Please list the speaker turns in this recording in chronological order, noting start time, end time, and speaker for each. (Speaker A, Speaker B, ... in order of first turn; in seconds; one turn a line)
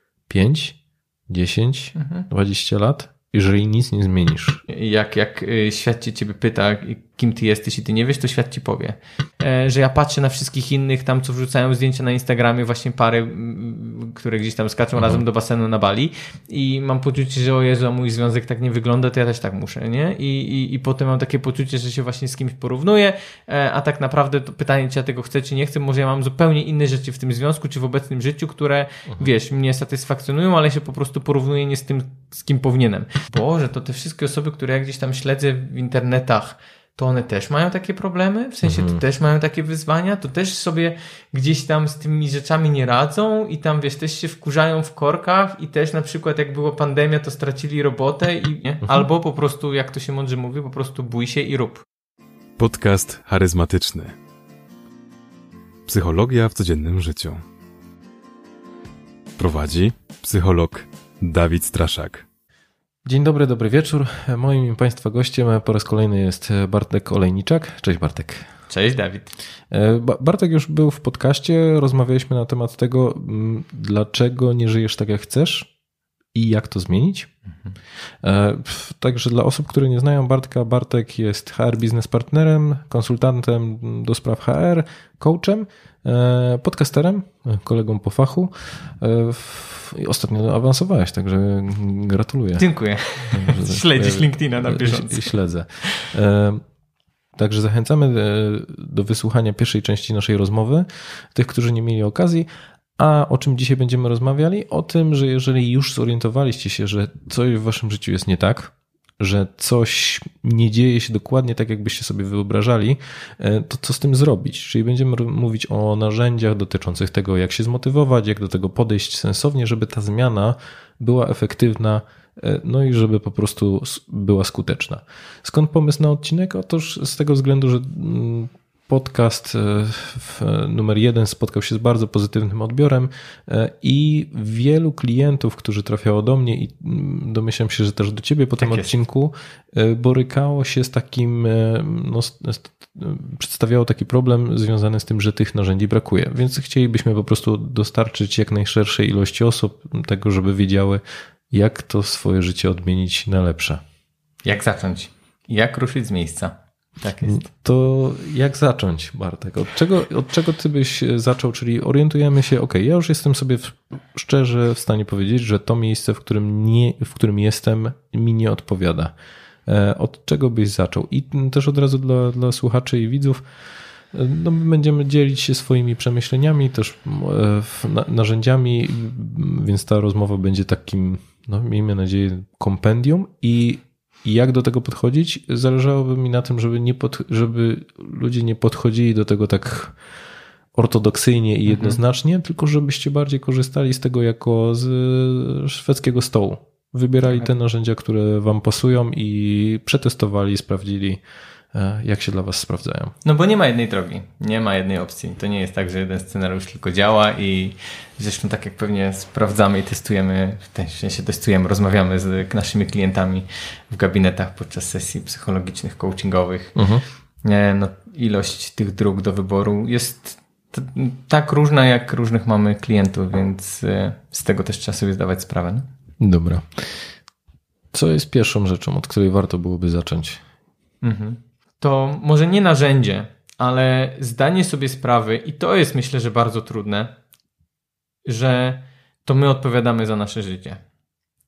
Speaker A: 0.3-0.8
Speaker A: 1.3-4.6
Speaker B: 1.9-2.2
Speaker B: 4.7-51.8
Speaker A: 38.6-39.0
Speaker C: 52.6-54.1
Speaker C: 55.9-57.4
Speaker C: 59.4-62.2
Speaker A: 63.0-68.5
Speaker B: 68.7-69.3
Speaker A: 69.7-75.7
Speaker A: 76.3-77.3
Speaker A: 78.2-92.7
Speaker B: 92.6-95.3
Speaker A: 93.3-96.6
Speaker A: 97.3-102.5
Speaker A: 103.0-153.8
Speaker B: 138.6-138.9
Speaker B: 154.4-157.4
Speaker A: 157.2-169.1
Speaker A: 169.7-173.4
Speaker A: 174.1-189.9
Speaker A: 190.7-201.2
Speaker B: 191.7-192.0
Speaker A: 201.7-203.1
Speaker B: 203.2-216.8
Speaker A: 216.8-217.0
Speaker B: 217.4-225.9
Speaker A: 226.2-227.1
Speaker A: 227.9-230.4
Speaker B: 231.0-237.1
Speaker B: 238.2-240.8